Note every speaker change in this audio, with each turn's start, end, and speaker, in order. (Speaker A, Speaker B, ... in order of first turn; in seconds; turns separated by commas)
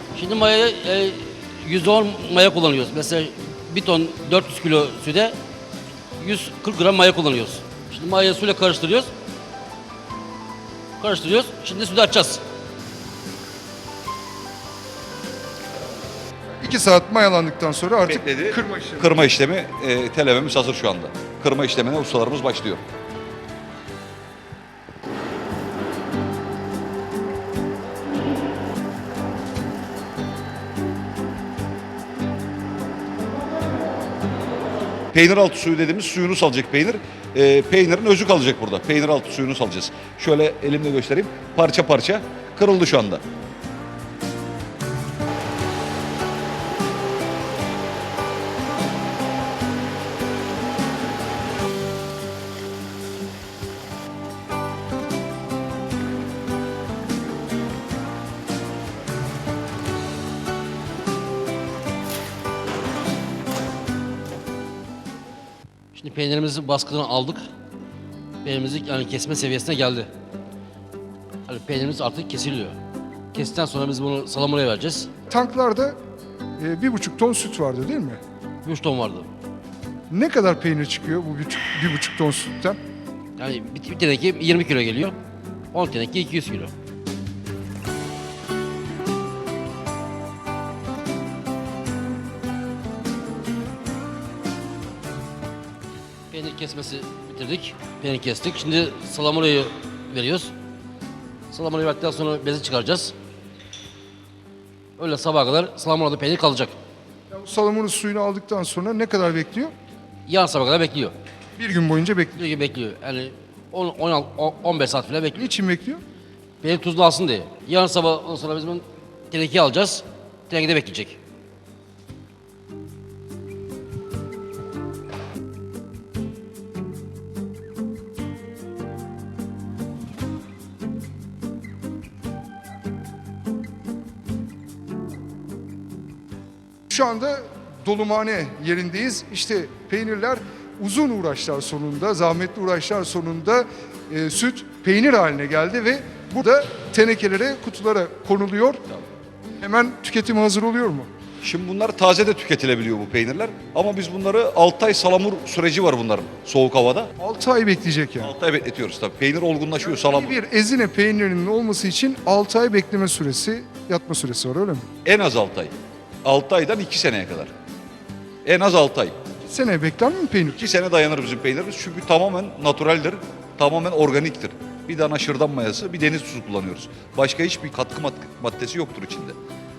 Speaker A: 0.1-5.3, Speaker A: 6.2-9.1, Speaker A: 11.0-12.4, Speaker B: 16.6-19.2, Speaker C: 18.0-22.8, Speaker C: 35.1-43.2, Speaker A: 66.0-67.4, Speaker A: 68.4-70.1, Speaker A: 71.5-72.8, Speaker A: 73.3-75.1, Speaker B: 75.3-76.0, Speaker B: 76.6-78.2, Speaker A: 78.6-79.3, Speaker B: 80.1-82.8, Speaker A: 83.4-85.2, Speaker A: 85.7-86.7, Speaker A: 96.3-100.5, Speaker A: 101.5-103.1, Speaker A: 105.0-106.8, Speaker B: 107.3-109.7, Speaker A: 110.3-111.1, Speaker B: 111.6-112.4, Speaker A: 112.3-115.5, Speaker B: 115.3-116.0, Speaker A: 116.6-121.2, Speaker B: 136.9-148.8, Speaker B: 149.6-151.1, Speaker C: 151.4-157.1, Speaker B: 157.2-158.3, Speaker C: 158.2-160.4, Speaker B: 159.8-164.9, Speaker C: 165.1-165.7, Speaker C: 166.2-167.5, Speaker C: 168.4-169.2, Speaker B: 169.4-170.6, Speaker C: 170.6-179.4